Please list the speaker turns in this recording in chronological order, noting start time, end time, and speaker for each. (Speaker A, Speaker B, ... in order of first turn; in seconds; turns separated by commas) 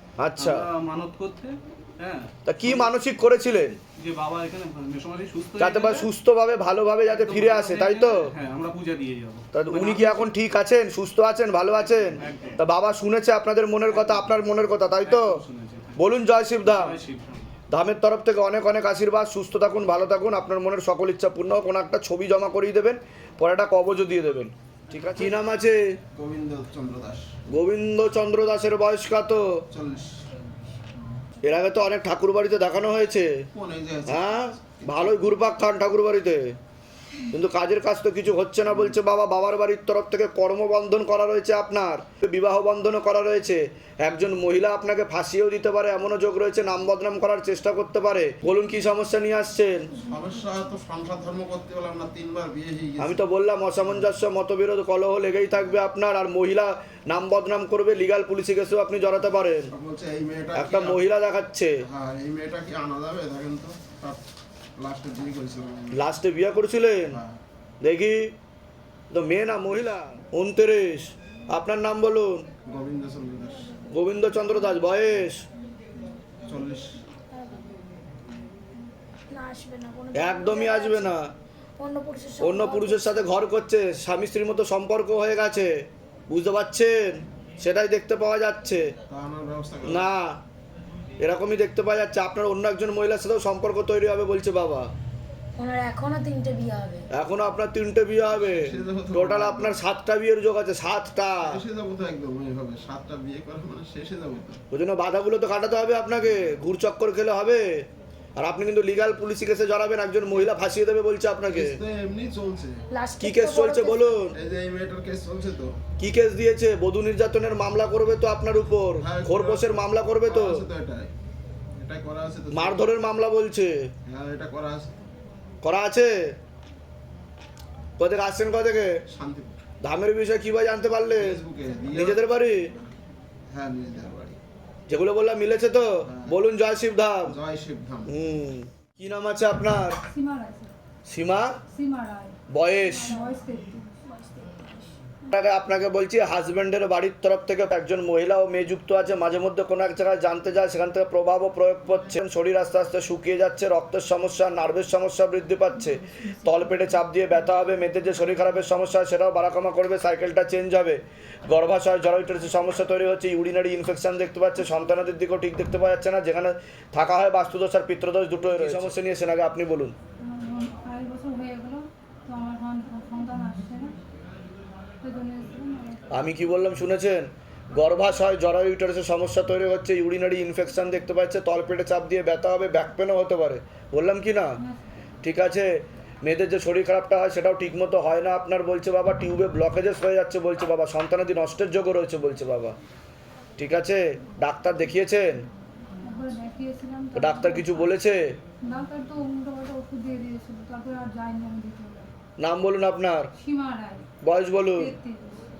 Speaker A: 0.2-0.7, Speaker B: 0.4-2.9, Speaker A: 2.5-3.8, Speaker B: 4.0-6.1, Speaker A: 5.6-8.3, Speaker B: 7.0-10.3, Speaker A: 9.5-15.4, Speaker B: 11.7-12.6, Speaker B: 13.8-14.4, Speaker B: 15.0-16.0, Speaker A: 16.0-17.0, Speaker B: 16.6-17.5, Speaker A: 17.7-25.9, Speaker C: 26.1-27.2, Speaker A: 27.5-29.4, Speaker C: 29.7-30.2, Speaker A: 31.4-33.3, Speaker C: 33.5-35.4, Speaker A: 34.1-36.5, Speaker A: 37.3-49.9, Speaker C: 50.0-53.2, Speaker A: 53.0-59.7, Speaker C: 59.7-61.0, Speaker A: 60.5-61.7, Speaker C: 61.9-64.2, Speaker C: 64.8-66.0, Speaker A: 65.9-67.2, Speaker C: 67.1-67.4, Speaker A: 67.8-68.3, Speaker A: 69.1-72.3, Speaker C: 72.7-73.7, Speaker A: 73.9-75.4, Speaker C: 76.5-77.0, Speaker D: 79.3-81.0, Speaker A: 80.1-81.3, Speaker D: 81.8-83.1, Speaker A: 82.4-88.9, Speaker C: 89.1-90.0, Speaker A: 89.9-90.4, Speaker A: 91.2-94.9, Speaker D: 95.6-97.0, Speaker A: 97.1-101.5, Speaker C: 98.3-99.8, Speaker C: 101.4-104.6, Speaker A: 104.7-111.8, Speaker C: 111.5-112.8, Speaker D: 112.9-114.0, Speaker A: 113.2-114.3, Speaker C: 114.3-115.7, Speaker A: 116.0-120.7, Speaker C: 119.0-121.1, Speaker C: 121.8-122.9, Speaker A: 122.5-123.7, Speaker C: 124.0-125.0, Speaker A: 125.6-126.3, Speaker A: 128.0-128.9, Speaker C: 129.1-129.6, Speaker A: 129.8-131.4, Speaker C: 131.2-132.2, Speaker A: 131.9-132.7, Speaker C: 133.5-134.4, Speaker A: 134.9-137.3, Speaker C: 136.0-136.4, Speaker C: 137.3-138.1, Speaker A: 138.1-140.0, Speaker E: 140.1-140.7, Speaker A: 141.1-141.5, Speaker E: 141.7-144.0, Speaker A: 142.5-143.2, Speaker D: 144.1-144.9, Speaker A: 145.3-169.9, Speaker E: 170.2-173.9, Speaker E: 175.0-176.0, Speaker A: 176.1-184.6, Speaker A: 185.2-192.8, Speaker A: 193.6-195.4, Speaker E: 196.0-198.0, Speaker A: 197.1-198.3, Speaker E: 198.6-202.1, Speaker A: 202.4-203.3, Speaker E: 203.4-204.1, Speaker A: 204.2-204.9, Speaker E: 204.8-205.4